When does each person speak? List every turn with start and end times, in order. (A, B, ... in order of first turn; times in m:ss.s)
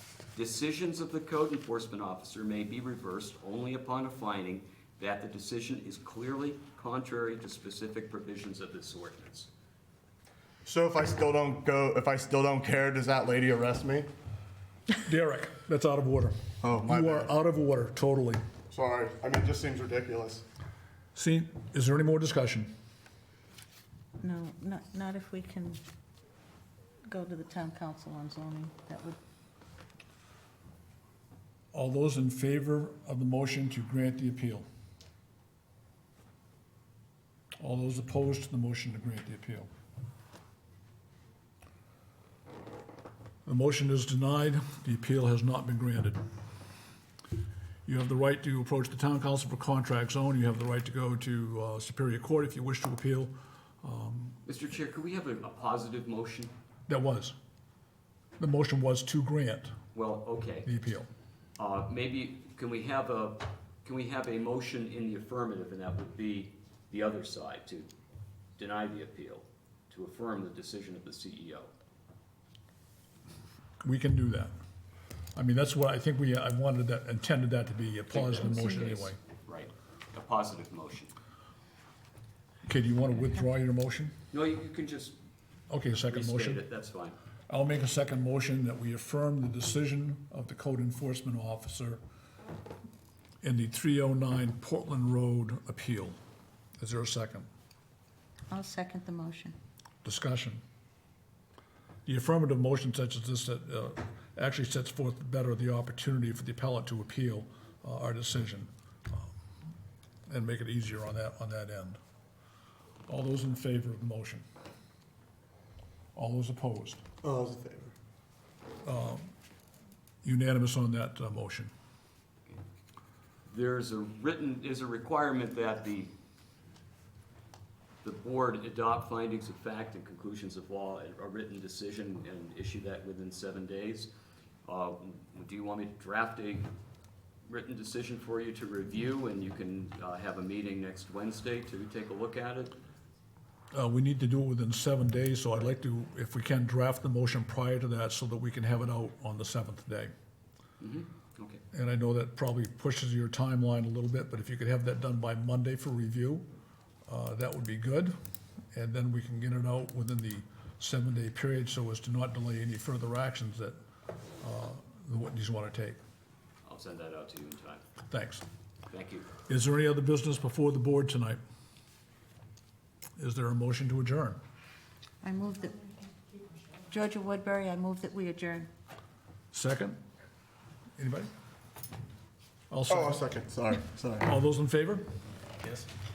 0:00.3-0:09.5 A
0:10.6-0:14.1 B
0:15.0-0:18.4 C
0:16.6-0:17.3 B
0:18.7-0:20.4 B
0:21.1-0:22.7 C
0:24.2-0:25.8 D
0:27.1-0:29.2 D
0:31.7-0:34.6 C
0:37.6-0:39.7 C
0:43.4-0:46.2 C
0:47.8-0:54.4 C
0:54.4-0:56.5 A
0:56.9-0:57.3 C
0:58.4-0:59.7 C
0:59.9-1:00.7 A
1:00.6-1:01.1 C
1:01.6-1:07.9 A
1:08.6-1:11.7 A
1:13.8-1:14.5 C
1:15.3-1:19.2 C
1:18.1-1:21.1 A
1:22.6-1:24.1 C
1:24.3-1:25.2 A
1:25.7-1:26.6 C
1:26.1-1:27.2 A
1:27.5-1:32.0 C
1:33.4-1:36.2 C
1:36.8-1:37.5 C
1:38.5-1:39.5 D
1:40.0-1:40.6 C
1:42.0-1:49.3 C
1:50.3-1:52.0 C
1:53.1-1:54.4 C
1:56.1-1:57.0 C
1:57.2-1:57.9 B
1:58.8-1:59.3 C
2:00.2-2:01.7 C
2:03.5-2:06.1 A
2:08.0-2:14.1 A
2:14.6-2:16.7 A
2:17.4-2:22.8 A
2:23.7-2:30.1 C
2:30.8-2:31.6 A
2:31.7-2:36.4 C
2:37.1-2:38.1 C
2:38.7-2:43.8 C
2:44.4-2:46.0 C
2:46.6-2:47.8 A
2:48.1-2:48.4 C
2:48.9-2:49.3 A
2:49.5-2:51.4 C
2:53.2-2:54.4 C
2:55.2-2:55.8 D
2:56.9-2:58.7 D
2:59.5-3:00.0 C
3:01.0-3:01.3 C
3:02.7-3:03.2 C
3:02.9-3:04.3 B
3:04.2-3:05.1 C